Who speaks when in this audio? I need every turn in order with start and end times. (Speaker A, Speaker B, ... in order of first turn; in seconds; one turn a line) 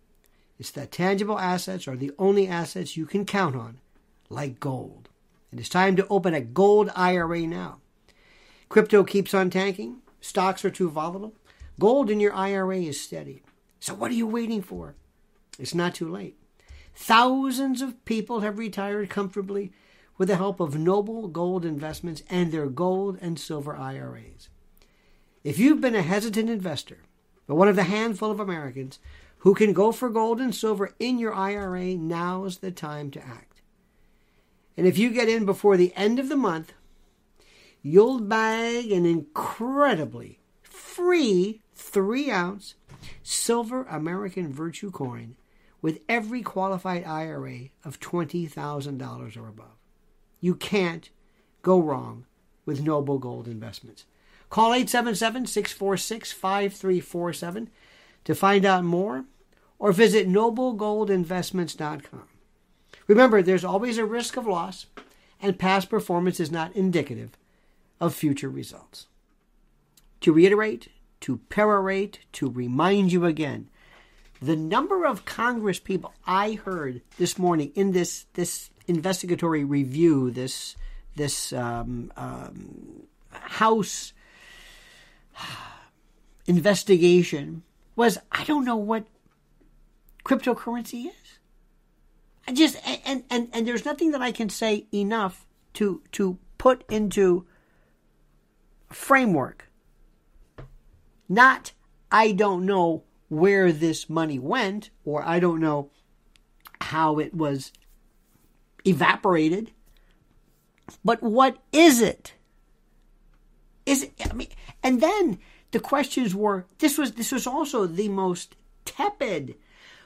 Speaker A: 0.6-7.8
Speaker A: 8.7-14.9
Speaker A: 15.6-16.4
Speaker A: 16.9-24.5
Speaker A: 25.4-33.6
Speaker A: 34.8-36.7
Speaker A: 37.8-49.8
Speaker A: 50.4-51.1
Speaker A: 51.6-57.7
Speaker A: 58.2-59.2
Speaker A: 59.8-62.3
Speaker A: 63.1-64.9
Speaker A: 65.4-67.4
Speaker A: 68.0-69.1
Speaker A: 70.2-73.7
Speaker A: 74.4-84.1
Speaker A: 85.3-85.7
Speaker A: 86.5-89.1
Speaker A: 90.2-91.4
Speaker A: 92.5-97.5
Speaker A: 98.9-99.7
Speaker A: 101.3-105.9
Speaker A: 106.8-107.7
Speaker A: 108.8-109.7
Speaker A: 111.0-112.3
Speaker A: 113.8-119.6